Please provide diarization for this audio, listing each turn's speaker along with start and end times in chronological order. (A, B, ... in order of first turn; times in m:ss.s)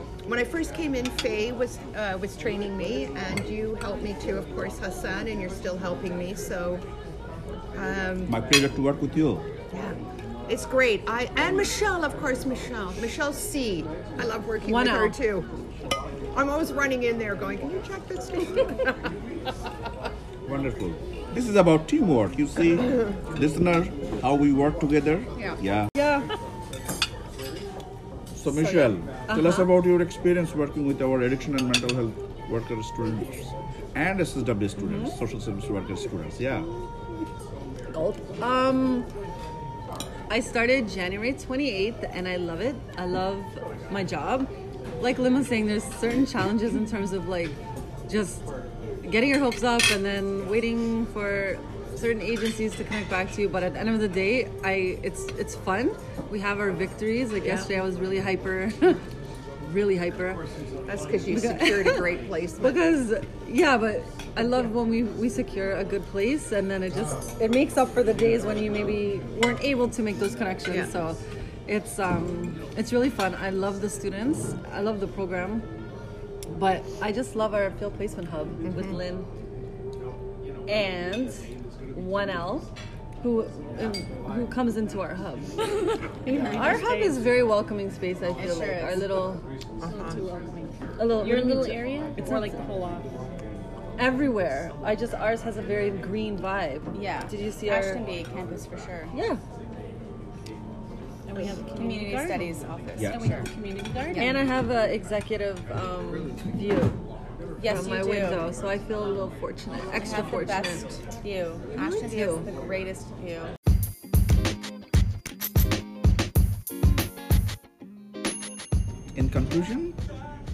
0:00.2-0:06.8 A
0:07.7-0:08.3 A
0:08.3-0:09.5 B
0:10.5-0:15.5 A
0:14.6-0:15.2 C
0:16.3-0:19.1 A
0:20.5-0:25.9 B
0:26.0-0:26.3 C
0:28.3-0:36.7 B
0:28.6-0:28.9 D
0:29.3-0:29.7 C
0:34.8-0:35.1 C
0:37.9-0:39.1 C
0:40.3-0:48.5 C
0:49.0-0:59.0 C
0:57.4-0:57.7 A
0:59.6-1:00.4 C
1:00.9-1:02.9 A
1:01.3-1:15.7 C
1:10.7-1:10.9 A
1:16.5-1:19.3 C
1:18.6-1:19.0 A
1:20.7-1:22.7 C
1:23.2-1:25.6 C
1:26.2-1:27.2 E
1:26.3-1:26.8 D
1:26.4-1:29.4 C
1:28.4-1:29.3 D
1:29.8-1:30.2 A
1:29.8-1:33.1 E
1:31.0-1:32.6 C
1:34.0-1:38.0 C
1:36.9-1:39.1 D
1:39.1-1:39.4 C
1:41.3-1:44.4 E
1:41.4-1:43.5 D
1:43.0-1:43.4 B
1:44.0-1:44.4 D
1:44.1-1:47.0 C
1:47.6-1:48.5 D
1:47.6-1:50.8 C
1:49.9-1:53.5 D
1:51.8-1:52.5 C
1:59.2-2:00.0 B